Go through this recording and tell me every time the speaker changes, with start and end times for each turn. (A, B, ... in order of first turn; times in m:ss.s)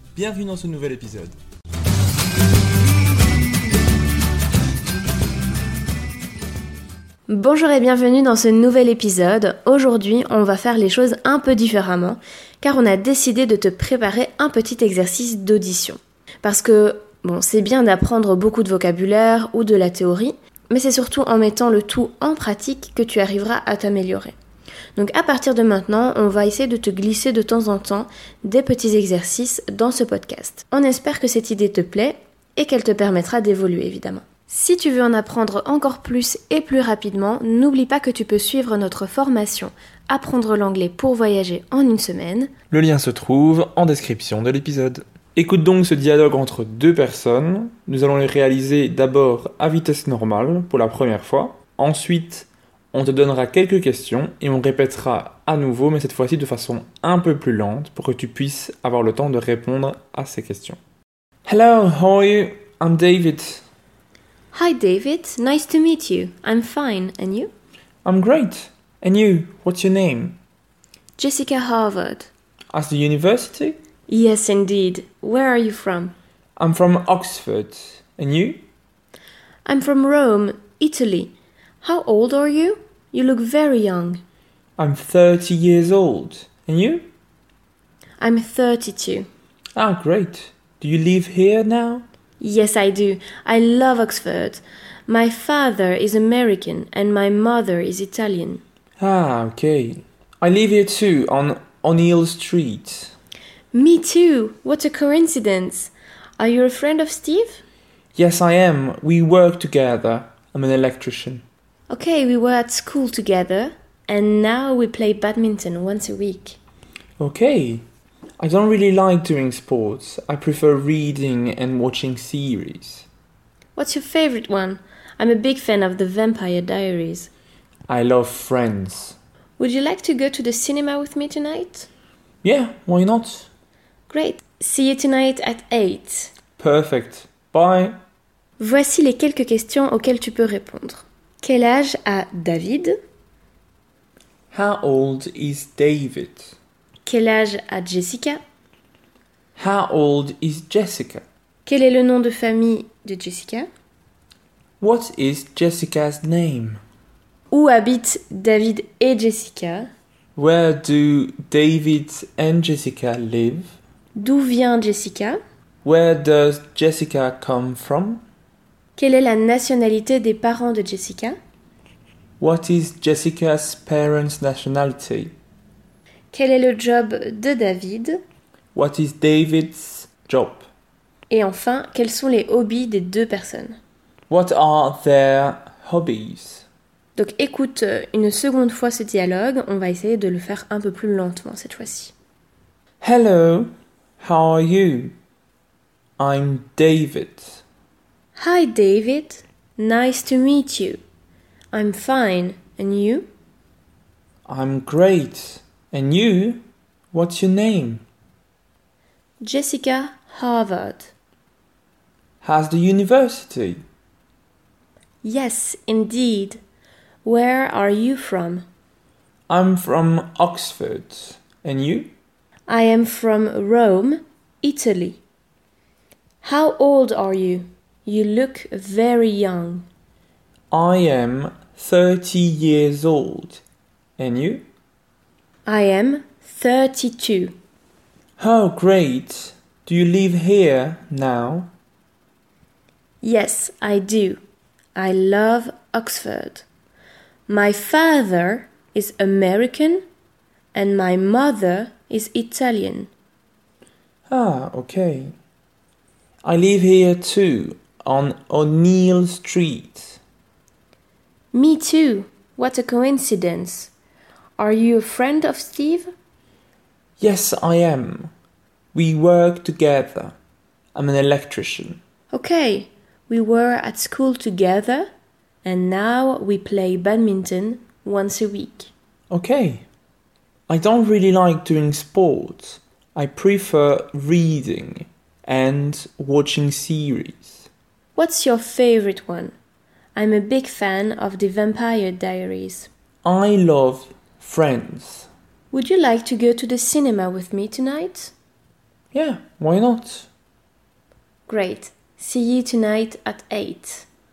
0:00.1-0:01.3 A
0:07.3-0:24.3 B
0:24.9-0:42.5 B
0:42.7-1:00.8 A
1:01.4-1:03.6 A
1:04.5-1:07.5 B
1:08.0-1:10.4 A
1:11.2-1:12.3 B
1:12.7-1:13.8 A
1:14.1-1:16.1 B
1:16.6-1:18.6 A
1:19.6-1:24.2 B
1:24.8-1:27.0 A
1:28.2-1:29.3 B
1:29.7-1:32.0 A
1:32.4-1:38.6 B
1:39.0-1:43.1 A
1:43.7-1:47.6 B
1:48.2-1:51.4 A
1:51.9-1:56.6 B
1:57.2-1:57.8 A
1:58.4-2:03.1 A
2:03.8-2:07.3 B
2:07.9-2:09.2 A
2:09.6-2:11.9 B
2:12.4-2:13.5 A
2:14.1-2:16.3 B
2:16.6-2:18.0 A
2:18.6-2:22.9 B
2:24.5-2:26.6 A
2:27.0-2:28.4 B
2:29.6-2:31.2 A
2:31.6-2:33.7 B
2:34.8-2:36.8 A
2:37.5-2:39.9 B
2:40.4-2:43.7 A
2:44.2-2:45.4 B
2:45.8-2:48.2 A
2:49.0-2:51.4 B
2:52.4-2:55.3 A
2:56.3-2:58.2 B
2:58.7-3:00.7 A
3:01.3-3:03.8 B
3:04.3-3:06.7 A
3:07.2-3:12.1 B
3:13.0-3:15.1 A
3:16.2-3:17.6 A
3:18.4-3:21.0 B
3:21.7-3:23.3 B
3:24.5-3:28.0 A
3:29.4-3:31.1 B
3:32.4-3:33.8 A
3:35.2-3:36.6 B
3:37.2-3:38.6 B
3:39.5-3:42.1 A
3:42.7-3:45.2 B
3:46.4-3:49.8 B
3:50.7-3:53.6 A
3:54.2-3:54.6 A
3:55.6-3:57.5 B
3:58.4-4:01.7 A
4:03.2-4:04.4 B
4:04.9-4:06.6 B
4:07.5-4:10.0 B
4:10.7-4:13.1 B
4:14.3-4:15.3 A
4:16.4-4:20.2 A
4:21.5-4:23.9 B
4:24.6-4:26.1 B
4:27.2-4:28.3 A
4:28.9-4:30.3 A
4:30.9-4:32.0 A
4:32.3-4:35.1 B
4:35.6-4:38.9 B
4:39.3-4:39.8 A
4:40.7-4:47.7 A
4:48.2-4:49.5 B
4:50.1-4:52.9 B
4:53.2-4:55.3 A
4:55.7-4:58.3 B
4:59.1-5:00.3 A
5:01.5-5:04.1 B